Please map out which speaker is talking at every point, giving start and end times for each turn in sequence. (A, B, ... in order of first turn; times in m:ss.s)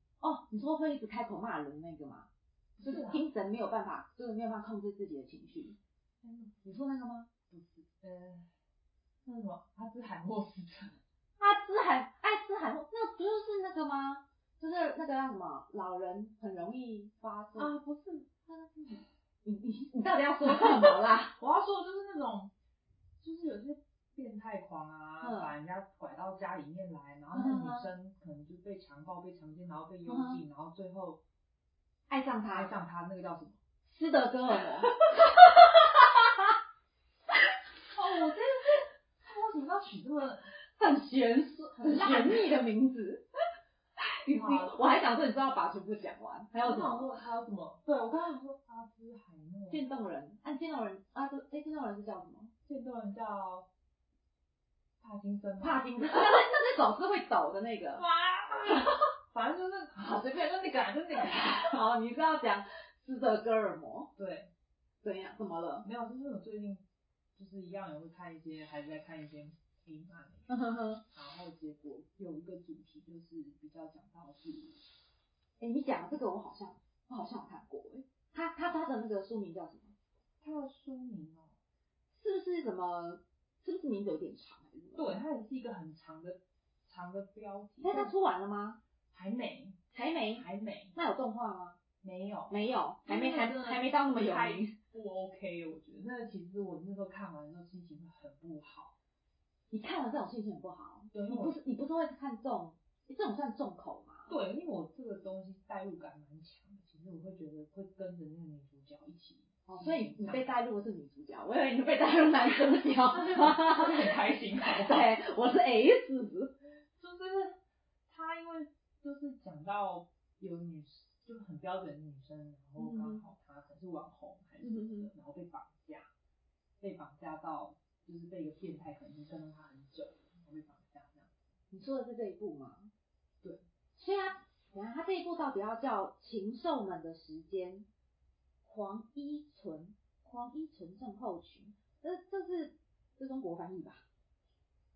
0:00.2-0:02.3 A
0:02.8-0:03.3 B
0:02.8-0:05.8 A
0:06.2-0:06.8 B
0:06.7-0:07.3 A
0:07.5-0:08.5 B
0:09.2-0:11.0 B
0:11.4-0:17.7 A
0:17.6-0:19.1 B
0:19.4-0:21.3 A
0:20.5-0:22.5 B
0:23.2-0:31.2 B
0:25.2-0:25.5 A
0:27.3-0:27.9 A
0:30.1-0:30.4 A
0:32.1-0:32.7 A
0:32.5-0:33.6 B
0:33.9-0:36.5 A
0:34.5-0:36.0 B
0:37.9-0:40.5 B
0:40.8-0:43.2 A
0:41.7-0:42.6 B
0:44.2-0:47.1 A
0:44.3-0:44.8 B
0:46.6-0:49.8 B
0:49.7-0:52.5 A
0:52.7-0:53.7 B
0:55.0-0:55.9 B
0:55.6-0:58.0 A
0:58.0-1:01.8 B
1:01.1-1:04.1 A
1:04.2-1:04.5 B
1:05.0-1:05.9 A
1:05.8-1:06.8 B
1:07.4-1:14.8 B
1:10.5-1:11.0 A
1:15.6-1:19.9 A
1:20.4-1:21.5 B
1:22.1-1:25.2 A
1:25.0-1:28.1 B
1:27.8-1:28.8 A
1:29.1-1:29.8 B
1:29.9-1:31.8 A
1:30.4-1:30.9 B
1:32.0-1:32.6 B
1:32.5-1:34.7 A
1:33.1-1:39.0 B
1:39.7-1:44.4 A
1:41.1-1:41.6 B
1:44.3-1:50.6 B
1:49.7-1:56.6 A
1:53.1-1:55.1 B
1:57.0-2:06.1 B
2:02.8-2:03.2 A
2:04.6-2:05.1 A
2:06.8-2:11.4 B
2:11.7-2:12.9 A
2:14.0-2:17.9 A
2:18.6-2:24.0 A